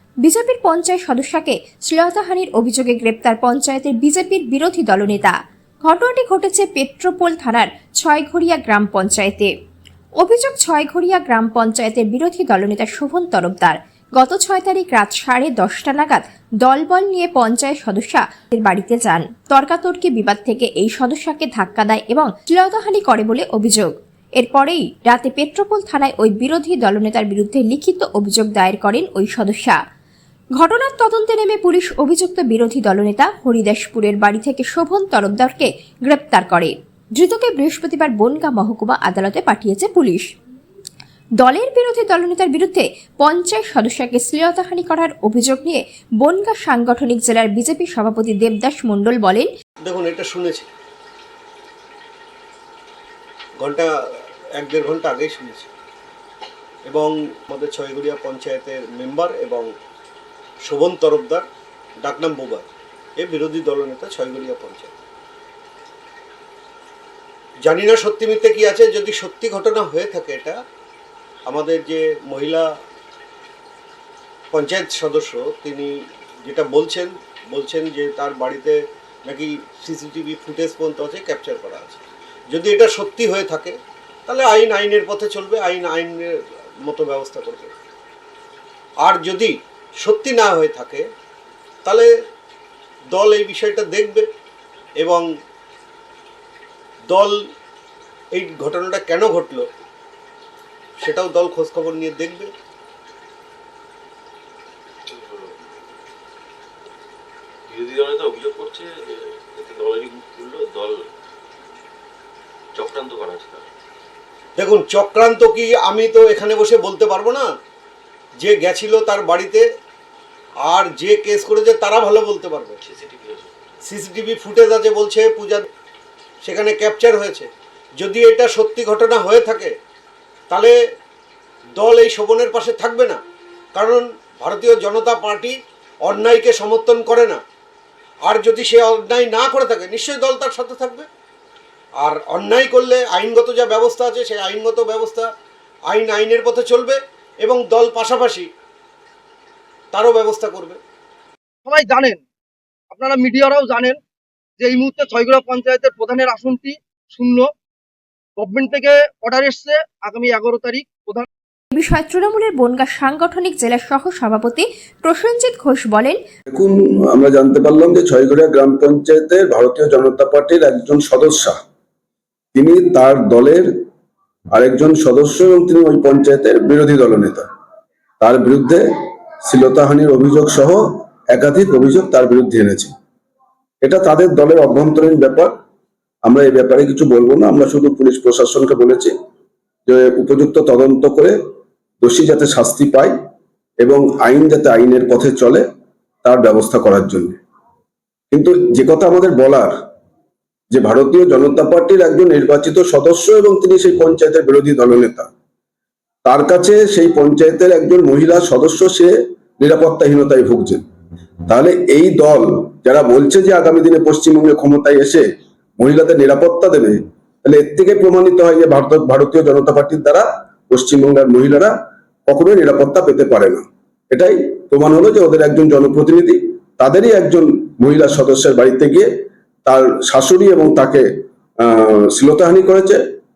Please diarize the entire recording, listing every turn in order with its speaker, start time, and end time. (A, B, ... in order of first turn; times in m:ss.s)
0:00.2-0:09.5 A
0:10.2-0:29.8 A
0:30.6-0:40.3 A
0:41.4-0:49.5 A
0:49.8-0:50.7 B
0:53.6-0:53.9 B
0:54.6-0:55.7 B
0:56.9-0:59.7 B
1:00.6-1:01.4 B
1:02.0-1:02.7 B
1:03.2-1:04.9 B
1:07.7-1:10.6 B
1:11.5-1:12.6 B
1:14.5-1:15.9 B
1:16.4-1:23.8 B
1:24.3-1:26.3 B
1:26.8-1:27.7 B
1:29.0-1:31.0 B
1:33.1-1:34.3 B
1:37.1-1:37.4 B
1:38.3-1:39.6 B
1:41.0-1:42.5 B
1:45.1-1:45.7 C
1:47.7-1:51.1 C
1:52.8-1:53.7 C
1:54.6-1:57.5 B
1:58.4-1:59.6 B
2:00.7-2:02.8 B
2:02.8-2:03.8 C
2:03.8-2:05.7 B
2:06.4-2:09.7 B
2:10.5-2:10.8 B
2:11.8-2:13.2 B
2:13.7-2:17.4 B
2:18.2-2:21.1 B
2:22.0-2:25.3 B
2:25.9-2:28.5 B
2:29.9-2:30.8 B
2:31.6-2:32.2 D
2:32.9-2:34.0 D
2:34.6-2:37.5 D
2:38.4-2:41.3 D
2:41.7-2:46.2 A
2:46.5-2:51.6 E
2:52.5-2:53.7 E
2:54.5-2:57.5 E
2:58.2-2:58.8 E
2:59.4-3:00.8 E
3:01.3-3:02.9 E
3:03.8-3:05.5 E
3:06.2-3:09.1 E
3:09.9-3:11.4 E
3:12.0-3:13.1 E
3:13.8-3:15.6 E
3:16.2-3:17.4 E
3:18.3-3:19.7 E
3:20.7-3:25.3 E
3:26.2-3:30.8 E
3:31.5-3:35.3 E
3:35.8-3:41.7 E
3:42.3-3:49.1 E
3:49.7-3:51.1 E
3:51.6-3:53.0 E